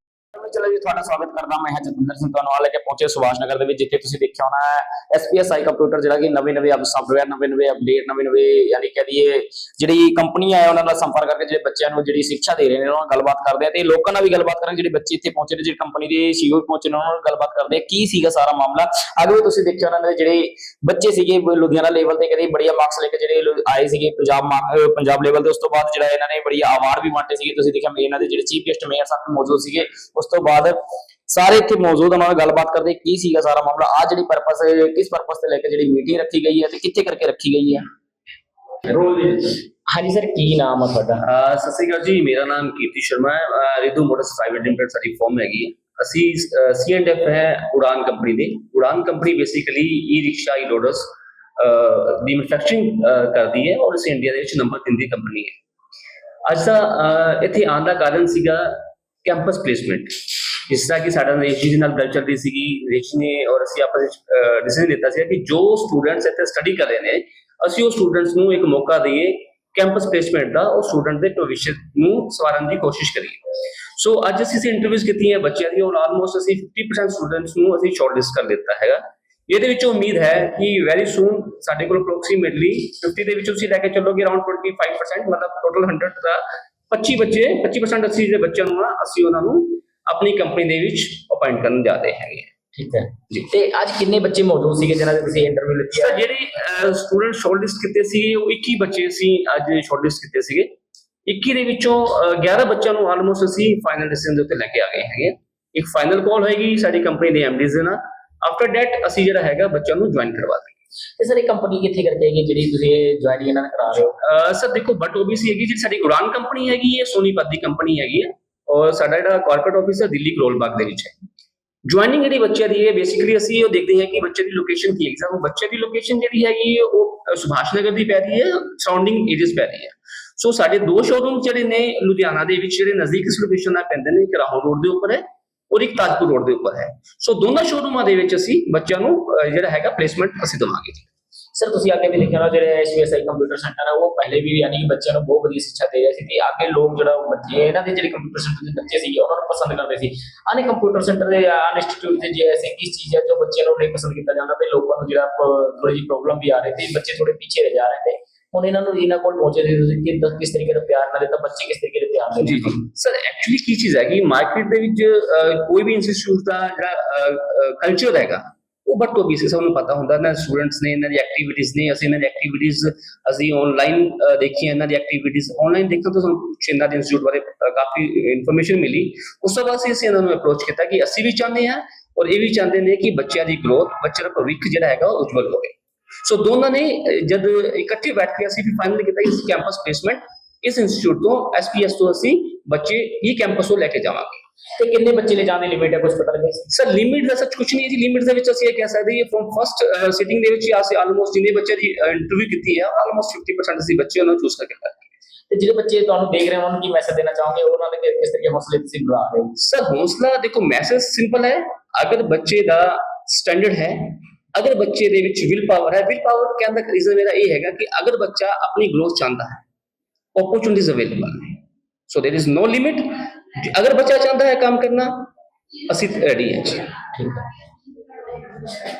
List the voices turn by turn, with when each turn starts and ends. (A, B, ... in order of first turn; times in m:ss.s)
0:00.4-0:37.9 A
0:38.9-0:41.2 A
0:41.4-0:51.0 B
0:51.6-0:55.5 B
0:56.5-0:58.7 B
0:59.2-1:13.4 B
1:14.0-1:26.4 B
1:26.9-1:32.5 B
1:32.7-1:36.2 A
1:36.4-1:40.7 B
1:41.3-1:50.7 B
1:51.2-1:54.2 A
1:54.4-2:01.1 B
2:01.9-2:21.1 B
2:21.6-2:42.8 A
2:42.5-3:05.7 B
3:06.3-3:14.4 B
3:14.8-3:16.6 A
3:16.8-3:25.0 B
3:25.5-3:29.6 A
3:29.6-3:33.9 B
3:34.6-3:39.6 B
3:40.4-3:41.4 B
3:42.1-3:43.0 B
3:43.7-3:45.1 B
3:45.9-3:46.8 B
3:47.2-3:47.4 A